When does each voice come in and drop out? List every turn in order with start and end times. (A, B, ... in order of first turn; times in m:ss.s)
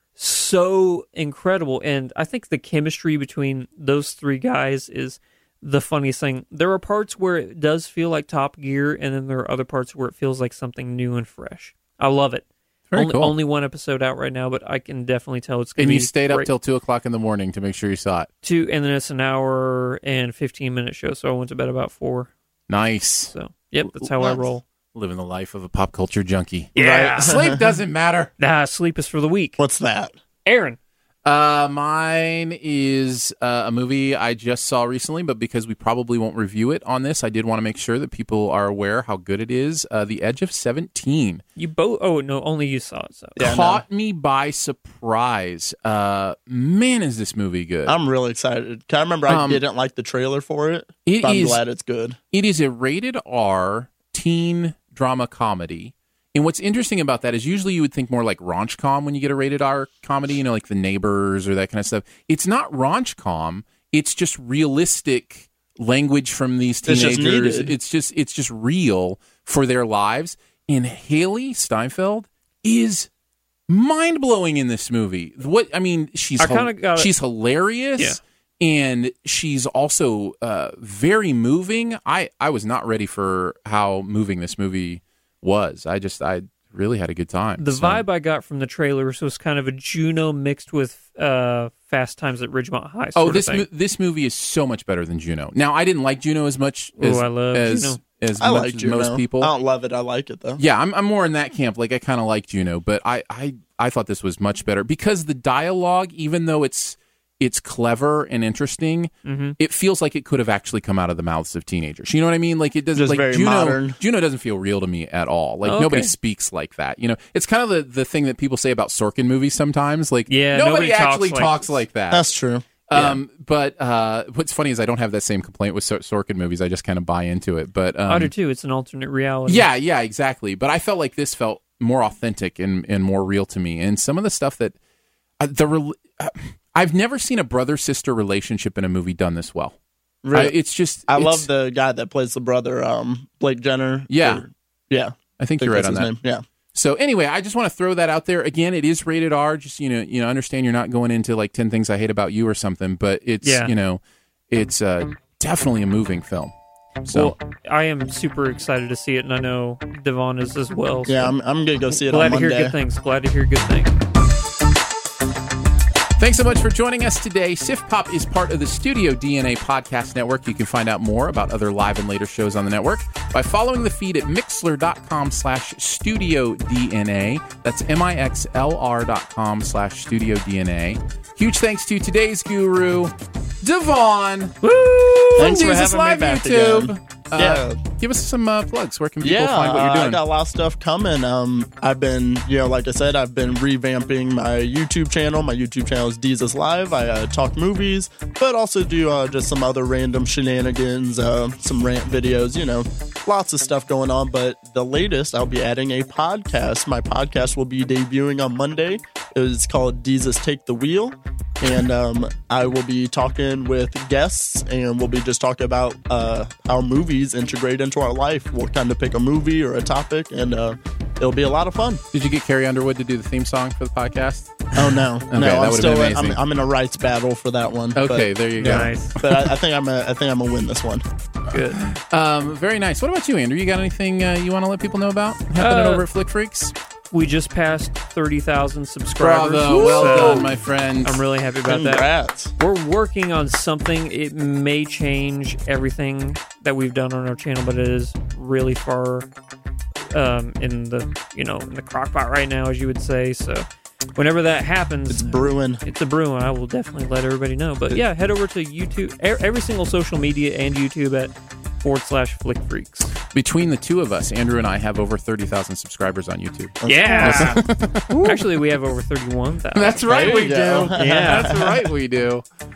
0:00.2-0:16.5 A
0:12.9-0:13.3 B
0:15.8-0:18.3 B
0:18.4-0:22.3 A
0:22.7-0:23.3 B
0:23.3-0:24.6 A
0:24.9-0:28.3 B
0:26.7-0:27.3 A
0:26.8-0:27.7 C
0:28.4-0:29.6 A
0:29.6-0:30.1 C
0:30.4-0:30.8 A
0:31.2-0:41.4 B
0:41.6-0:43.4 A
0:43.4-0:47.9 B
0:43.4-0:43.8 C
0:47.9-0:52.2 C
0:49.3-0:49.6 B
0:51.0-0:51.6 B
0:52.3-1:13.1 B
1:06.9-1:07.7 C
1:13.7-1:28.0 B
1:16.4-1:17.1 A
1:27.6-1:33.6 A
1:33.2-1:39.5 B
1:37.0-1:38.0 A
1:38.4-1:40.6 C
1:40.6-2:02.3 B
1:49.2-1:49.6 A
1:53.0-1:54.0 C
1:55.6-1:56.1 A
2:00.3-2:01.8 A
2:02.1-2:03.2 C
2:02.9-2:08.3 B
2:08.1-2:09.6 A
2:09.5-2:14.7 B
2:15.4-2:19.8 B
2:20.2-2:20.6 C
2:20.3-2:21.5 B
2:21.1-2:26.4 C
2:24.1-2:24.4 B
2:25.4-2:26.1 B
2:26.7-2:36.5 B
2:33.4-2:33.7 A
2:37.0-2:37.3 B
2:37.1-2:41.3 A
2:41.1-2:42.7 C
2:41.9-2:43.9 A
2:46.2-3:10.2 B
3:05.1-3:05.6 A
3:05.4-3:07.8 C
3:09.2-3:42.0 C
3:42.1-3:44.5 B
3:44.7-3:51.0 C
3:45.3-3:46.4 B
3:47.9-3:49.5 B
3:48.6-3:49.1 A
3:51.5-3:51.8 A
3:51.8-3:56.7 B
3:55.6-3:56.1 A
3:57.1-4:02.1 A
3:59.2-4:01.2 B
3:59.7-4:00.4 C
4:01.7-4:02.5 C
4:02.6-4:09.3 A
4:10.1-4:23.1 A
4:15.1-4:15.8 C
4:23.3-4:28.5 B
4:26.8-4:27.6 C
4:26.8-4:31.5 A
4:29.7-4:32.4 B
4:30.1-4:31.9 C